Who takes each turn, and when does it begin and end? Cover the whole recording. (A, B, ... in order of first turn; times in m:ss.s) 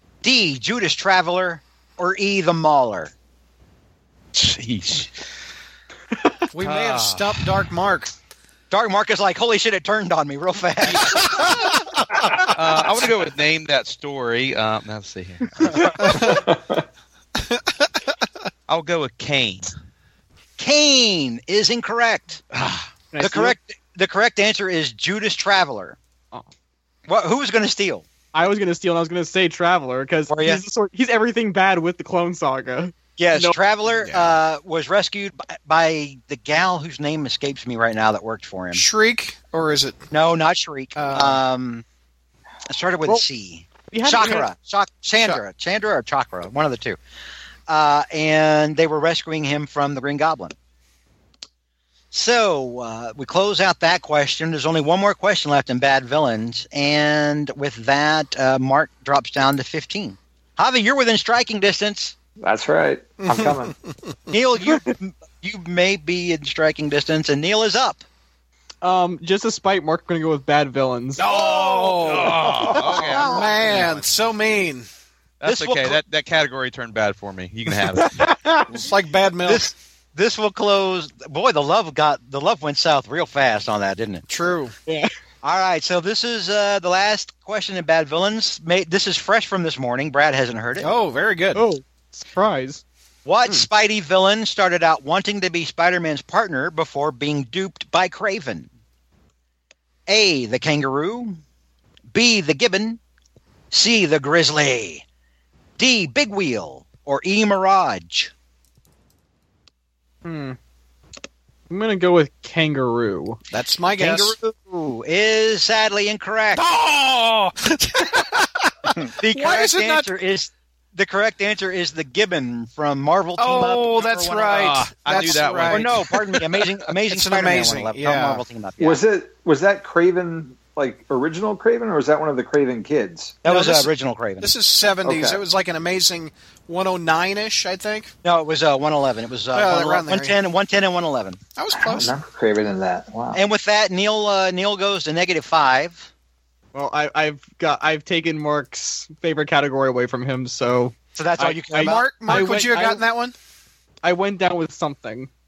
0:00.2-0:03.1 A
0:04.3-0:05.1 B
0:06.5-0:08.1 C
0:06.6-0:07.6 B
0:08.7-0:11.3 A
0:11.2-0:11.5 B
0:11.2-0:11.5 C
0:12.5-0:16.3 B
0:16.0-0:16.4 C
0:17.5-0:17.8 C
0:18.7-0:19.7 B
0:20.6-0:22.4 A
0:22.5-0:22.9 B
0:23.1-0:23.6 D
0:23.2-0:26.0 A
0:27.1-0:28.1 A
0:28.3-0:33.6 D
0:30.3-0:30.6 A
0:33.2-0:38.8 A
0:34.0-0:34.4 C
0:38.7-0:40.0 C
0:40.1-0:41.8 A
0:41.0-0:41.4 C
0:42.7-0:47.0 A
0:43.9-0:44.5 D
0:47.7-0:50.6 A
0:52.1-1:02.2 A
1:02.4-1:03.7 E
1:03.2-1:04.1 C
1:04.3-1:08.0 A
1:08.8-1:11.2 D
1:11.2-1:14.9 C
1:11.2-1:14.0 B
1:15.4-1:18.2 B
1:15.4-1:16.0 A
1:18.7-1:19.7 C
1:19.4-1:24.2 A
1:24.3-1:24.7 C
1:24.8-1:25.1 D
1:25.4-1:30.9 A
1:30.8-1:31.6 C
1:31.6-1:32.8 D
1:33.2-1:38.7 A
1:40.1-1:41.4 A
1:42.1-1:43.0 A
1:43.7-1:45.0 A
1:45.8-1:48.3 A
1:50.2-1:50.6 D
1:51.7-1:53.4 D
1:53.5-1:54.4 C
1:54.0-1:56.6 A
1:56.6-2:00.1 C
1:59.2-2:09.0 A
2:03.4-2:08.4 C
2:04.4-2:05.9 B
2:08.8-2:13.4 E
2:13.4-2:14.5 A
2:13.5-2:18.1 C
2:15.0-2:15.4 E
2:18.2-2:21.4 A
2:19.5-2:20.4 C
2:21.6-2:22.1 C
2:21.8-2:23.4 E
2:23.3-2:26.1 A
2:26.7-2:33.0 D
2:31.2-2:32.4 A
2:31.7-2:33.3 C
2:34.0-2:35.3 D